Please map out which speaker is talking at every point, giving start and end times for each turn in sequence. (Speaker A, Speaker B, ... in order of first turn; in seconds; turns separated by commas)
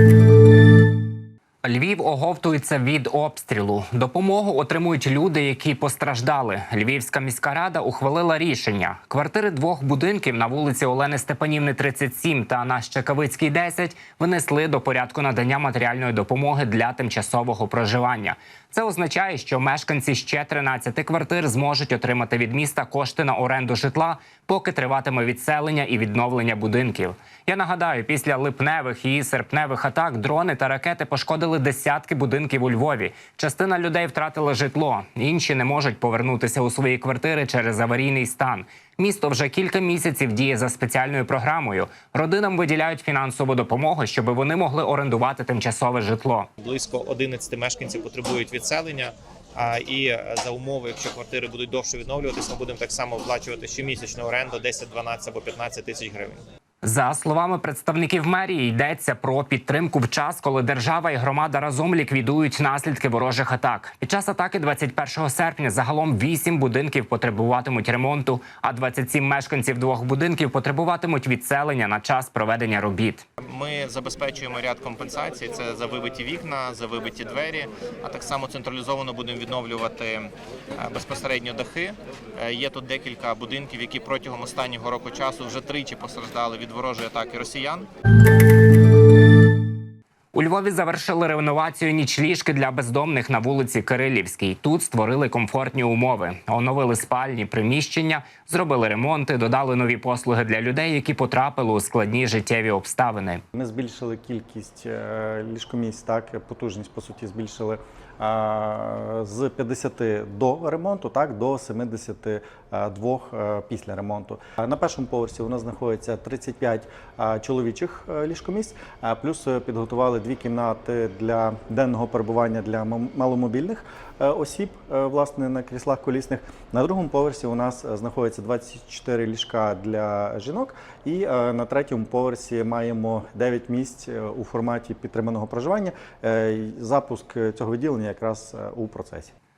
Speaker A: 1.6-46.5, Speaker B: 46.6-56.4, Speaker A: 56.8-73.2, Speaker B: 73.4-87.9, Speaker A: 90.3-103.4, Speaker C: 103.5-139.3